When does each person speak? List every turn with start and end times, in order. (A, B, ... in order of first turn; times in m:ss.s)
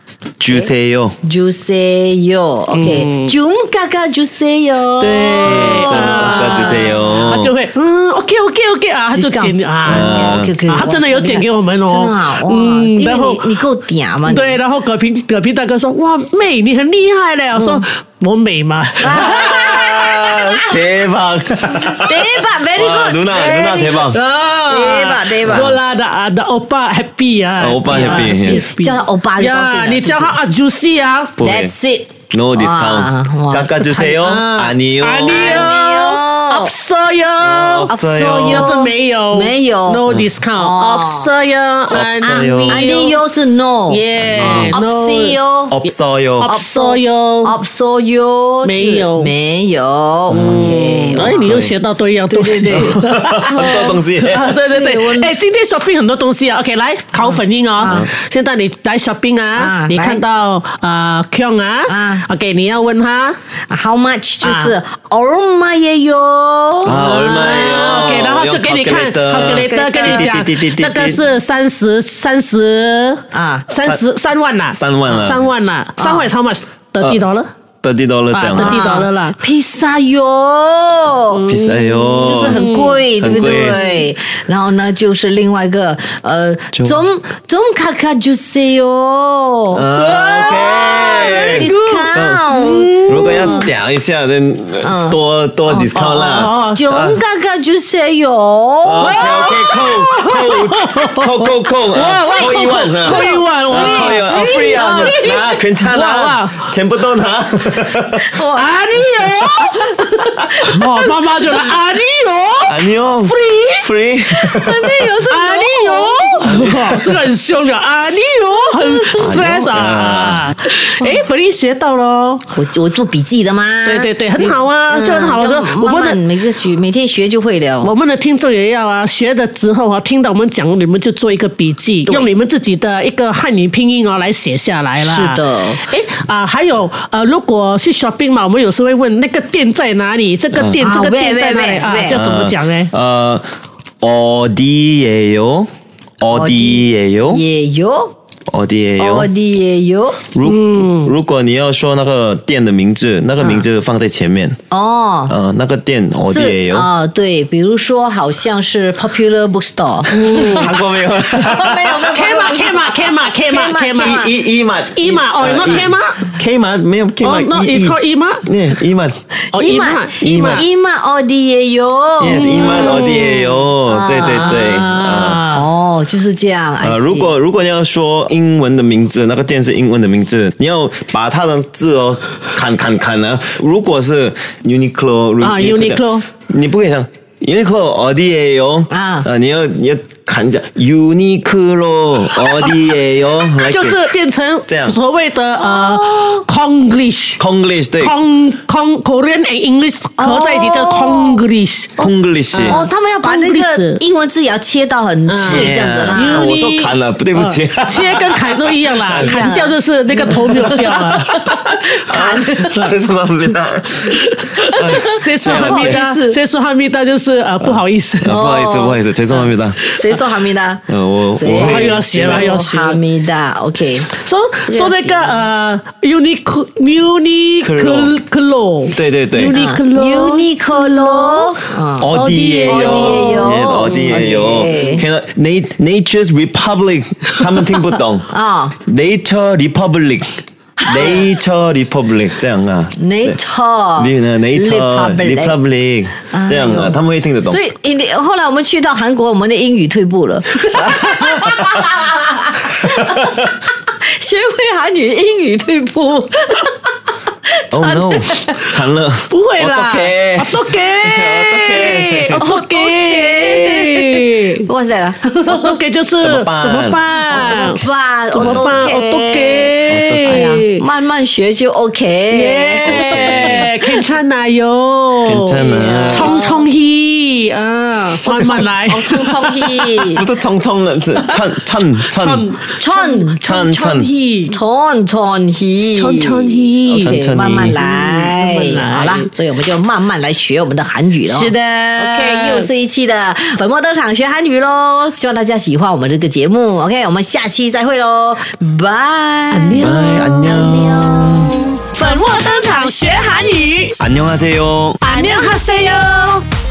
0:00.4-0:01.2 A
0:01.2-0:07.3 B
0:02.7-0:03.3 C
0:05.0-0:13.6 C
0:05.4-0:07.5 A
0:09.1-0:14.6 B
0:09.8-0:10.6 A
0:14.3-0:19.8 C
0:17.6-0:17.8 B
0:19.0-0:20.8 B
0:19.1-0:24.2 A
0:21.8-0:25.8 B
0:24.1-0:31.4 C
0:25.5-0:25.7 A
0:27.6-0:28.7 A
0:27.9-0:30.4 B
0:31.4-0:31.7 A
0:31.4-0:34.5 B
0:32.3-0:35.7 A
0:34.2-0:37.9 C
0:35.2-0:36.7 B
0:37.4-0:38.8 A
0:37.9-0:40.1 B
0:38.4-0:43.2 C
0:40.6-0:41.3 B
0:41.9-0:45.8 B
0:41.9-0:42.9 A
0:43.9-0:45.4 C
0:44.2-0:44.8 A
0:45.7-0:46.5 A
0:46.4-0:47.6 C
0:46.5-0:51.5 B
0:48.6-0:49.3 C
0:50.3-0:51.7 A
0:50.3-1:03.4 C
0:52.3-0:53.0 B
0:52.7-0:54.5 A
0:54.7-0:55.4 B
0:57.2-0:58.1 B
0:59.6-1:00.2 B
1:01.9-1:02.3 B
1:03.7-1:07.0 B
1:04.4-1:04.7 C
1:06.8-1:11.2 A
1:06.9-1:17.5 C
1:09.5-1:10.4 B
1:13.3-1:13.7 B
1:14.7-1:15.5 A
1:16.0-1:16.3 B
1:17.8-1:18.8 A
1:18.3-1:19.4 C
1:18.5-1:21.5 B
1:21.3-1:24.1 C
1:21.5-1:23.8 A
1:22.2-1:33.7 B
1:26.7-1:27.0 A
1:29.7-1:32.4 A
1:30.0-1:33.7 C
1:33.0-1:37.2 A
1:34.8-1:40.4 B
1:36.3-1:36.9 C
1:38.8-1:48.4 A
1:39.0-1:41.3 C
1:41.5-1:45.6 B
1:41.9-1:46.6 C
1:48.2-1:51.2 B
1:48.5-1:53.8 C
1:52.6-1:55.2 A
1:54.3-1:56.5 B
1:55.3-2:02.4 C
1:56.4-1:57.3 A
1:58.6-1:59.6 B
1:59.2-2:00.5 A
2:02.5-2:07.9 B
2:03.8-2:06.2 C
2:07.8-2:22.9 C
2:15.0-2:15.8 B
2:20.5-2:20.8 A
2:20.8-2:22.2 B
2:22.1-2:23.4 A
2:24.0-2:25.7 A
2:26.2-2:27.4 A
2:26.3-2:28.1 B
2:28.5-2:29.3 A
2:29.0-2:30.3 B
2:30.3-2:34.6 A
2:30.4-2:31.1 C
2:33.4-2:33.7 B
2:34.7-2:35.4 B
2:35.3-2:36.9 A
2:36.3-2:44.3 B
2:40.1-2:40.7 C
2:40.2-2:42.5 A
2:42.1-2:44.2 C
2:44.0-2:49.2 A
2:45.0-2:46.3 C
2:47.2-2:48.4 C
2:49.5-2:50.6 C
2:49.5-2:53.1 B
2:50.2-2:50.6 A
2:52.2-2:55.4 A
2:52.3-2:55.6 C
2:53.9-2:54.9 B
2:55.5-2:57.3 B
2:56.8-3:14.0 A
3:05.4-3:06.3 C
3:08.9-3:09.3 B
3:12.4-3:12.8 C
3:13.6-3:17.4 C
3:14.7-3:15.0 A
3:15.6-3:16.4 B
3:17.4-3:18.2 A
3:18.0-3:24.0 C
3:20.2-3:21.4 B
3:22.0-3:22.8 A
3:22.0-3:26.7 B
3:25.3-3:31.5 C
3:25.4-3:29.4 A
3:29.2-3:31.3 B
3:30.6-3:36.0 A
3:31.8-3:33.0 B
3:34.0-3:38.4 C
3:34.6-3:36.4 B
3:37.6-3:39.8 A
3:38.3-3:44.1 B
3:40.9-3:42.5 A
3:41.5-3:43.0 C
3:44.1-3:54.9 C
3:44.6-3:45.5 B
3:47.6-3:48.1 A
3:48.9-3:49.6 A
3:49.4-3:55.0 B
3:52.0-3:58.3 A
3:58.3-3:58.8 B
3:58.9-4:03.4 A
4:00.8-4:01.2 B
4:03.0-4:05.6 B
4:04.0-4:07.6 A
4:06.3-4:16.9 B
4:10.9-4:11.8 A
4:17.6-4:18.7 B
4:17.7-4:22.4 A
4:19.3-4:24.6 C
4:22.4-4:25.8 B
4:25.5-4:27.8 C
4:26.2-4:27.8 A
4:27.3-4:34.0 B
4:28.3-4:30.8 C
4:28.4-4:28.8 A
4:29.9-4:30.6 A
4:32.3-4:40.2 C
4:32.9-4:33.7 A
4:35.2-4:36.3 A
4:35.6-4:36.7 B
4:38.2-4:40.2 B
4:40.2-4:42.4 A
4:42.1-4:44.6 C
4:42.8-4:43.6 B
4:43.4-4:44.1 A
4:44.5-5:03.5 B
4:46.0-4:47.2 C
4:47.0-4:47.8 A
4:47.8-4:49.3 C
4:51.2-4:52.7 C
4:59.5-5:00.6 C
4:59.8-5:01.3 A
5:01.5-5:04.0 C
5:04.0-5:05.0 A
5:05.0-5:06.4 C
5:05.0-5:06.0 B